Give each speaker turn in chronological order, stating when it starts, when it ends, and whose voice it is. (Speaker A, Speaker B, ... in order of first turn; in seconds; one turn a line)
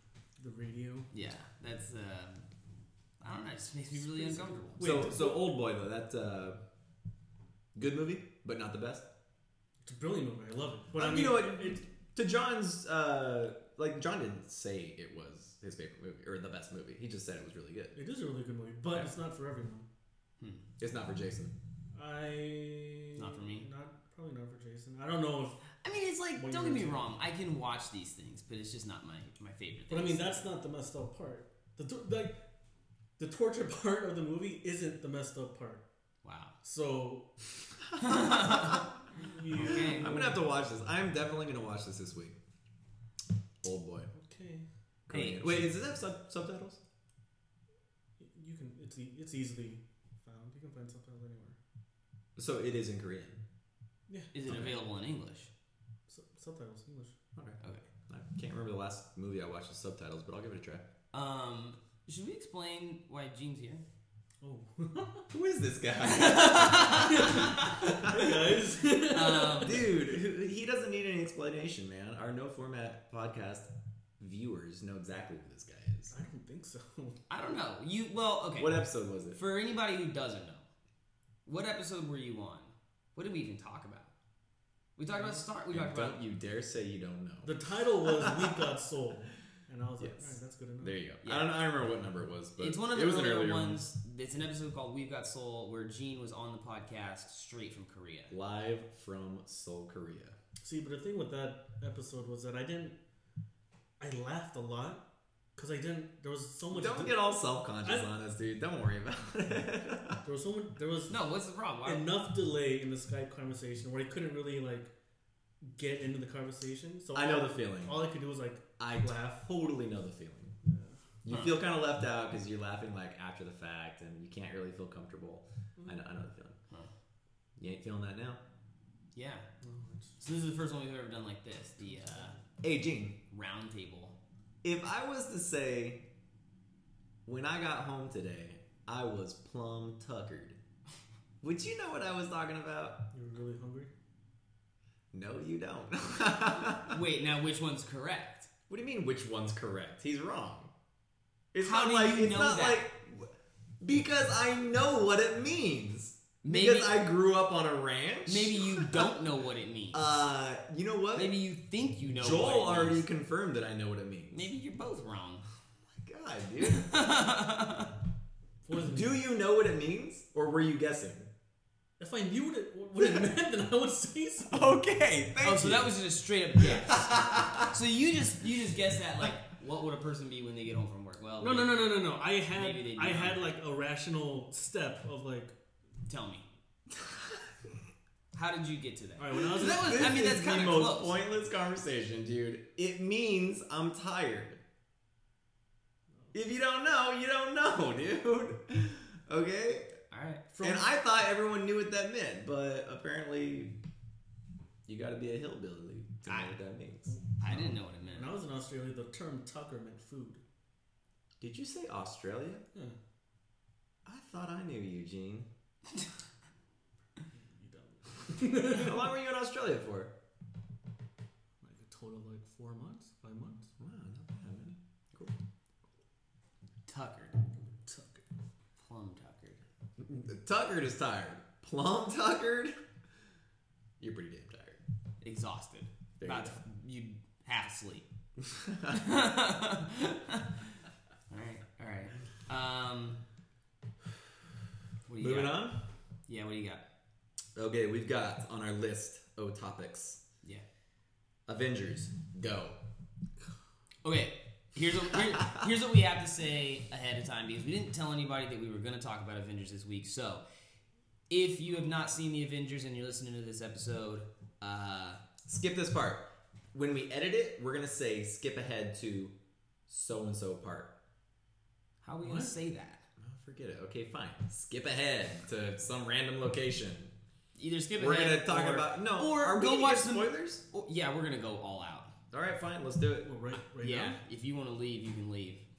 Speaker A: 0.4-1.1
Speaker B: 1.1-2.5
Speaker B: 3.2-4.9
Speaker A: 4.0-5.5
Speaker C: 4.8-6.6
Speaker C: 7.7-9.1
Speaker A: 9.8-11.8
Speaker C: 10.9-17.9
Speaker A: 17.9-19.9
Speaker C: 20.8-21.5
Speaker A: 21.9-25.6
Speaker B: 23.1-23.6
Speaker B: 25.8-30.5
Speaker A: 26.3-27.1
Speaker A: 29.9-32.4
Speaker A: 33.2-35.8
Speaker B: 36.2-36.5
Speaker A: 36.6-37.3
Speaker B: 38.0-38.9
Speaker C: 38.1-38.7
Speaker A: 39.1-40.5
Speaker B: 39.5-40.1
Speaker C: 39.7-42.4
Speaker C: 43.6-44.1
Speaker A: 44.1-44.6
Speaker C: 45.1-46.8
Speaker B: 45.1-45.7
Speaker A: 48.2-51.6
Speaker C: 52.4-53.4
Speaker A: 54.1-54.3
Speaker B: 54.3-55.5
Speaker C: 54.5-54.8
Speaker A: 56.1-57.1
Speaker C: 57.4-60.8
Speaker B: 61.1-63.8
Speaker A: 64.4-65.3
Speaker C: 65.3-68.4
Speaker B: 66.0-67.7
Speaker A: 67.1-69.9
Speaker B: 69.1-69.8
Speaker C: 69.6-73.7
Speaker C: 74.2-76.1
Speaker A: 76.1-77.2
Speaker B: 77.3-78.8
Speaker C: 78.6-79.4
Speaker B: 79.3-80.7
Speaker B: 81.5-84.1
Speaker B: 85.0-86.2
Speaker A: 85.1-85.4
Speaker C: 85.7-87.5
Speaker A: 87.4-91.0
Speaker C: 88.0-88.6
Speaker C: 90.0-93.9
Speaker B: 91.2-91.5
Speaker B: 92.6-98.3
Speaker C: 98.3-100.3
Speaker A: 100.6-103.0
Speaker A: 104.0-105.0
Speaker A: 105.5-107.2
Speaker C: 106.7-110.2
Speaker A: 107.8-108.1
Speaker A: 110.2-111.2
Speaker B: 111.1-112.1
Speaker A: 111.8-114.9
Speaker A: 115.6-119.4
Speaker C: 117.1-118.0
Speaker C: 118.8-120.5
Speaker A: 120.6-121.0
Speaker C: 121.2-126.5
Speaker B: 121.3-121.6
Speaker A: 125.8-126.0
Speaker C: 127.6-128.4
Speaker B: 129.1-129.4
Speaker A: 129.6-130.2
Speaker B: 130.2-132.3
Speaker A: 131.8-132.4
Speaker C: 132.6-133.2
Speaker B: 133.3-134.2
Speaker C: 134.6-136.0
Speaker C: 137.2-140.6
Speaker C: 141.4-143.0
Speaker A: 143.1-143.9
Speaker C: 145.1-147.0
Speaker B: 146.8-148.5
Speaker C: 148.7-150.7
Speaker C: 151.5-159.1
Speaker B: 151.6-152.8
Speaker B: 156.4-157.0
Speaker B: 158.2-160.1
Speaker C: 159.9-161.3
Speaker B: 161.1-163.1
Speaker C: 162.2-164.5
Speaker B: 164.3-165.4
Speaker C: 165.9-166.9
Speaker B: 166.6-167.9
Speaker A: 168.6-169.2
Speaker C: 168.8-171.3
Speaker A: 172.0-174.8
Speaker C: 173.0-173.3
Speaker C: 174.5-175.9
Speaker B: 175.4-183.4
Speaker C: 176.6-177.7
Speaker A: 181.4-185.5
Speaker B: 186.1-186.4
Speaker C: 186.9-187.5
Speaker B: 188.3-191.1
Speaker A: 189.2-190.1
Speaker C: 189.5-194.6
Speaker C: 196.3-199.9
Speaker B: 200.1-200.4
Speaker A: 200.5-200.9
Speaker C: 200.6-203.8
Speaker C: 204.9-207.1
Speaker B: 206.2-206.6
Speaker B: 207.4-208.3
Speaker A: 207.5-210.4
Speaker C: 211.4-212.6
Speaker C: 214.1-215.5
Speaker A: 217.3-219.0
Speaker C: 218.6-220.1
Speaker A: 221.6-223.7
Speaker C: 223.8-225.3
Speaker B: 226.9-227.4
Speaker A: 227.8-228.2
Speaker B: 228.8-229.6
Speaker C: 230.0-232.7
Speaker C: 234.0-234.8
Speaker B: 235.2-238.0
Speaker C: 236.2-236.6
Speaker C: 238.4-239.0
Speaker B: 238.9-240.6
Speaker B: 241.3-243.2
Speaker B: 245.1-245.6
Speaker C: 245.2-245.8
Speaker B: 246.3-246.8
Speaker C: 247.5-250.2
Speaker C: 251.5-252.8
Speaker B: 254.0-260.4
Speaker B: 261.3-265.2
Speaker C: 265.4-269.3
Speaker C: 269.9-270.9
Speaker B: 272.0-273.0
Speaker A: 272.2-272.5
Speaker C: 273.2-277.1
Speaker B: 277.6-282.1
Speaker C: 278.0-280.6
Speaker C: 282.3-283.3
Speaker A: 283.2-284.2
Speaker B: 283.8-285.6